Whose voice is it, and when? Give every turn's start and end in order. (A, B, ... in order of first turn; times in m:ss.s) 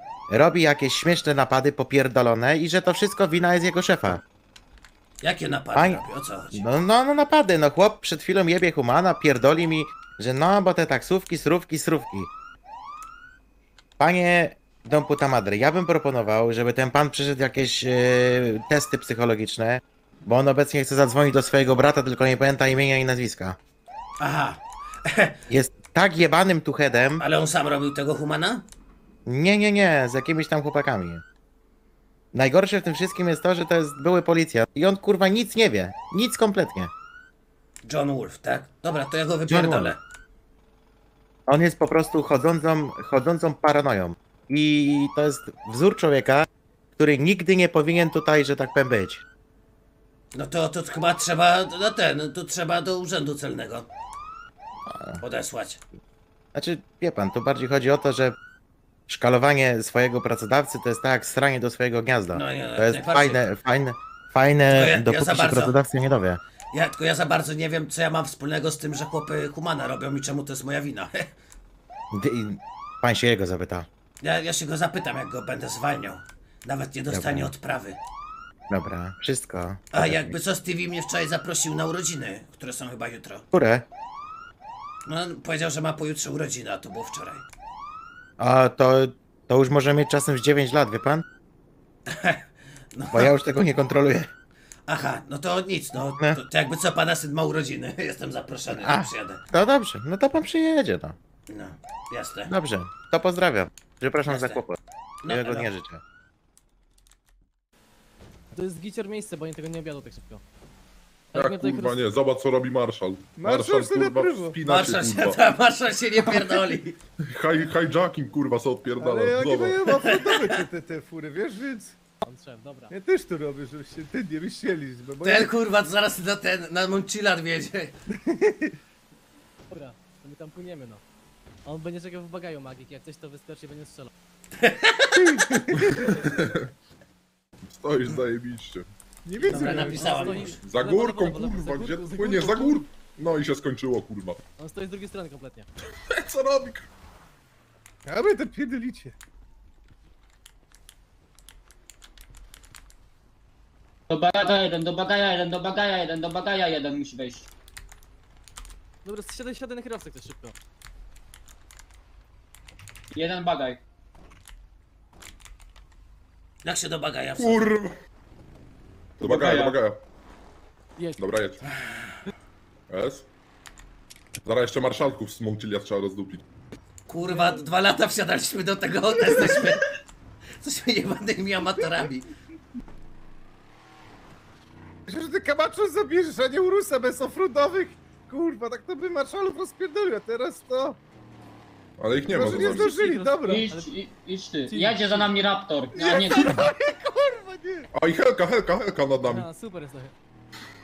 0:00.3-0:04.2 A
0:05.2-0:06.6 B
0:05.8-0:06.0 A
0:06.5-0:12.3 A
0:14.0-0:23.6 A
0:24.2-0:25.4 B
0:25.5-0:27.2 A
0:27.2-0:28.7 B
0:29.3-0:31.2 A
0:32.3-0:36.9 A
0:37.8-0:40.0 B
0:39.5-0:40.0 A
0:41.5-0:49.2 A
0:50.3-0:53.9 B
0:54.9-0:55.2 A
0:55.2-0:55.8 B
0:56.5-0:58.4 A
0:59.1-1:06.4 A
1:02.3-1:03.4 B
1:04.7-1:05.8 B
1:06.7-1:11.3 B
1:12.1-1:13.9 A
1:14.2-1:18.0 B
1:17.1-1:17.5 A
1:18.7-1:20.4 A
1:19.9-1:23.5 B
1:23.5-1:23.9 A
1:25.1-1:27.4 B
1:28.4-1:31.2 A
1:32.1-1:33.4 B
1:33.1-1:34.3 A
1:34.9-1:39.4 B
1:36.0-1:36.4 A
1:38.7-1:41.2 A
1:41.5-1:42.5 B
1:42.5-1:44.8 A
1:44.3-1:44.6 B
1:45.2-1:45.7 B
1:45.3-1:46.0 A
1:48.5-1:50.4 C
1:51.3-1:52.0 C
1:51.3-1:55.4 D
1:53.4-1:54.6 E
1:54.6-1:57.0 B
1:57.3-1:59.8 D
1:59.0-2:02.0 E
2:00.2-2:00.5 B
2:02.2-2:03.0 C
2:02.9-2:05.5 E
2:05.2-2:08.0 B
2:08.1-2:08.7 E
2:09.7-2:11.0 C
2:11.7-2:14.1 C
2:14.6-2:15.4 B
2:15.2-2:16.1 E
2:15.8-2:16.7 D
2:17.6-2:18.9 D
2:19.2-2:20.5 E
2:19.4-2:22.9 C
2:19.4-2:20.6 B
2:20.6-2:24.4 D
2:24.6-2:25.7 C
2:26.0-2:26.9 D
2:28.1-2:29.2 E
2:34.1-2:37.5 F
2:39.0-2:40.6 C
2:43.1-2:43.8 F
2:46.6-2:47.8 B
2:47.4-2:48.0 D
2:49.2-2:50.0 D
2:49.2-2:49.8 F
2:51.0-2:51.3 C
2:51.2-2:51.6 D
2:52.9-2:53.3 D
2:54.4-2:56.4 D
2:57.1-3:00.0 B
2:57.3-2:57.6 C
3:00.6-3:02.3 B
3:05.1-3:11.0 E
3:12.0-3:12.9 D
3:12.3-3:13.7 E
3:12.4-3:13.9 C
3:13.4-3:16.7 F
3:14.7-3:15.4 C
3:16.0-3:17.9 E
3:17.9-3:19.5 D
3:19.2-3:20.1 C